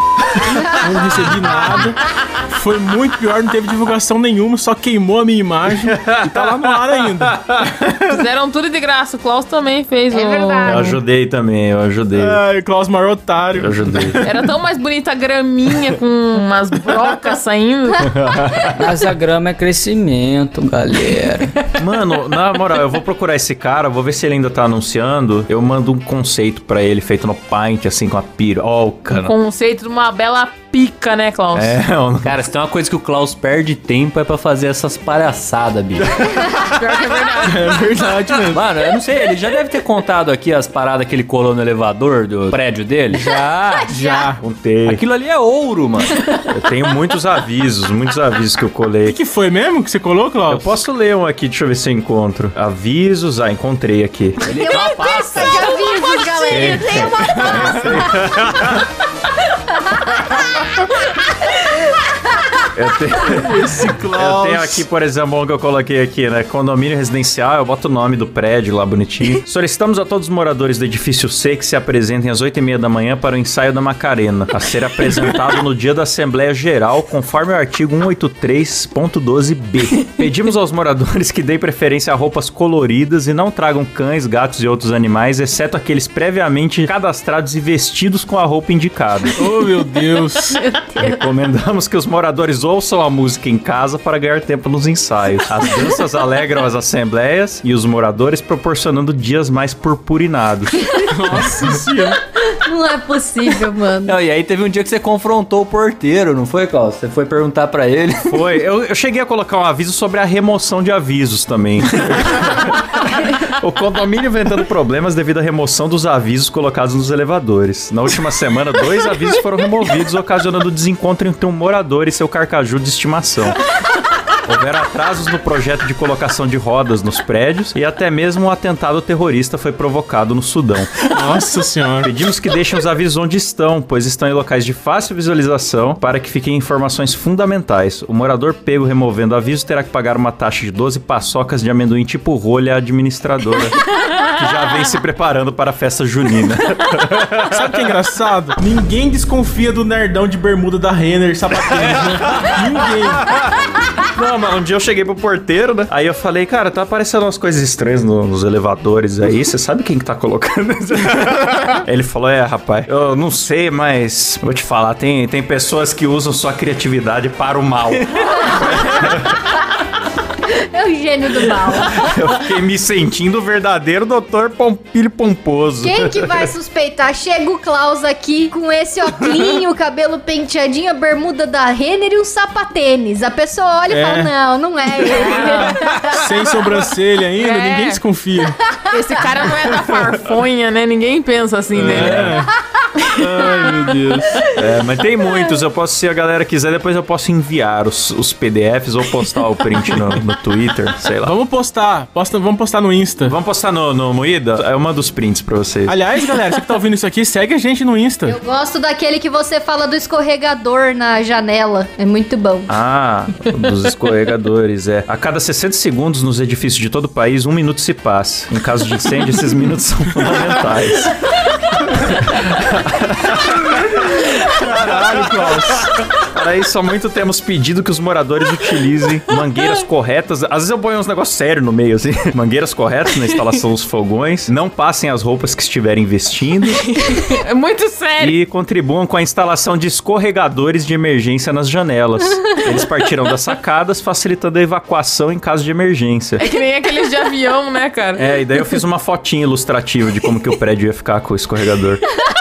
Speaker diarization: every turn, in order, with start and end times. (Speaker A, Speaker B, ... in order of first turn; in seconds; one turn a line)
Speaker A: 0.5-7.9
Speaker B: 5.8-7.7
Speaker C: 8.1-11.0
Speaker D: 10.1-10.9
Speaker B: 10.6-12.4
Speaker A: 12.1-14.4
Speaker B: 13.5-14.2
Speaker C: 14.2-18.1
Speaker B: 18.0-18.8
Speaker E: 18.8-21.5
Speaker B: 21.8-29.3
Speaker C: 29.1-31.8
Speaker B: 31.5-32.4
Speaker F: 32.2-36.2
Speaker C: 36.5-37.7
Speaker A: 37.4-38.6
Speaker F: 38.5-43.9
Speaker D: 43.8-44.3
Speaker A: 43.9-44.4
Speaker B: 44.4-45.0
Speaker F: 44.9-46.3
Speaker B: 46.5-49.1
Speaker A: 49.0-50.8
Speaker B: 50.5-54.4
Speaker F: 54.4-55.8
Speaker D: 54.4-58.2
Speaker C: 56.0-56.8
Speaker B: 56.5-58.9
Speaker B: 62.7-89.4
Speaker A: 63.2-64.8
Speaker A: 89.3-90.6
Speaker B: 91.0-100.9
Speaker A: 101.0-102.2
Speaker D: 102.4-104.2
Speaker F: 104.0-108.5
Speaker B: 108.3-123.6
Speaker B: 124.4-131.1
Speaker A: 131.1-132.1
Speaker B: 132.0-147.9
Speaker A: 147.5-153.3
Speaker B: 151.7-153.4
Speaker B: 154.0-169.4
Speaker D: 168.5-169.2
Speaker D: 170.5-172.1
Speaker B: 171.8-176.5
Speaker D: 175.8-186.1
Speaker A: 183.9-184.3
Speaker A: 185.1-188.6
Speaker C: 185.3-185.7
Speaker C: 187.4-188.0
Speaker C: 188.9-192.3
Speaker B: 191.7-192.4
Speaker A: 191.7-192.5
Speaker A: 193.1-194.5
Speaker B: 194.5-201.3
Speaker A: 201.2-203.3
Speaker B: 203.2-205.9
Speaker A: 205.9-208.4
Speaker D: 208.2-212.7
Speaker B: 212.7-237.3
Speaker A: 224.6-225.9
Speaker C: 236.8-238.4
Speaker B: 238.2-246.4
Speaker C: 246.4-248.2
Speaker B: 248.2-252.0